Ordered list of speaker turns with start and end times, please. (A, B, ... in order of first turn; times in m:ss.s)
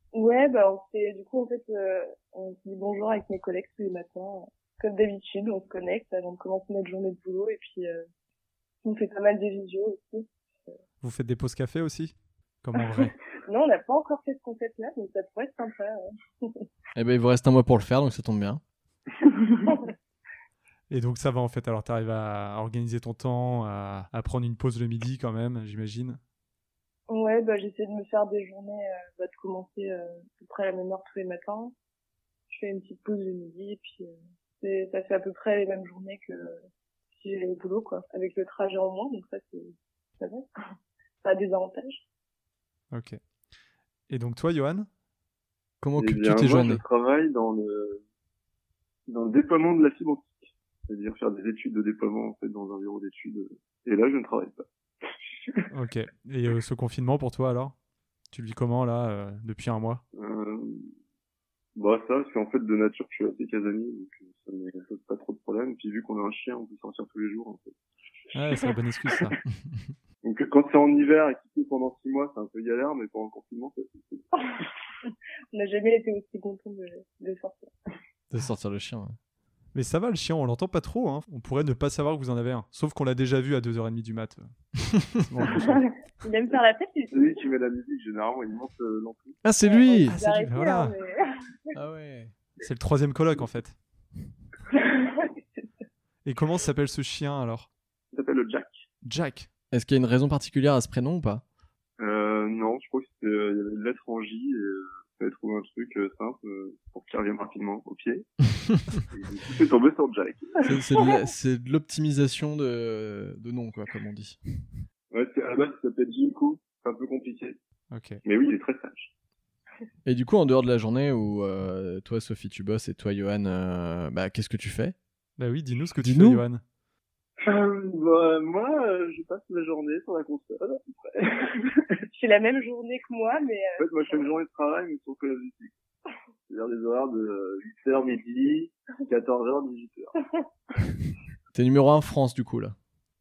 0:00.1-0:08.0 A
0:08.8-0:10.3 A
0:11.0-0:13.1 B
0:12.9-0:16.6 A
0:17.0-0:18.6 C
0:19.6-0:19.9 A
0:20.9-0:26.2 B
0:27.1-0:31.7 A
0:32.5-0:36.6 A
0:37.2-0:40.5 A
0:41.2-0:42.0 A
0:42.9-0:43.2 B
0:44.1-0:44.9 B
0:45.8-0:46.8 C
0:46.0-0:48.0 D
0:49.1-0:54.7 D
0:55.7-0:57.7 B
0:58.3-1:00.0 B
1:00.2-1:00.9 D
1:01.8-1:07.8 D
1:08.3-1:09.4 B
1:10.2-1:14.3 D
1:15.1-1:17.7 A
1:18.3-1:19.2 C
1:19.7-1:24.5 B
1:25.2-1:25.8 B
1:25.5-1:27.4 A
1:27.1-1:29.4 D
1:29.4-1:30.2 C
1:29.6-1:31.3 A
1:30.1-1:30.9 B
1:31.7-1:32.3 C
1:32.6-1:33.8 B
1:34.8-1:35.7 A
1:36.2-1:37.7 B
1:38.1-1:38.8 D
1:39.0-1:39.5 B
1:39.7-1:41.4 C
1:42.0-1:48.4 D
1:48.9-1:50.6 D
1:50.6-1:54.4 C
1:55.1-1:57.6 D
1:57.9-1:58.2 B
1:58.2-1:59.1 D
2:00.0-2:05.0 C
2:05.4-2:06.6 B
2:06.0-2:06.4 C
2:07.4-2:11.8 D
2:12.1-2:14.2 A
2:13.8-2:15.8 D
2:16.5-2:20.1 D
2:21.5-2:22.8 C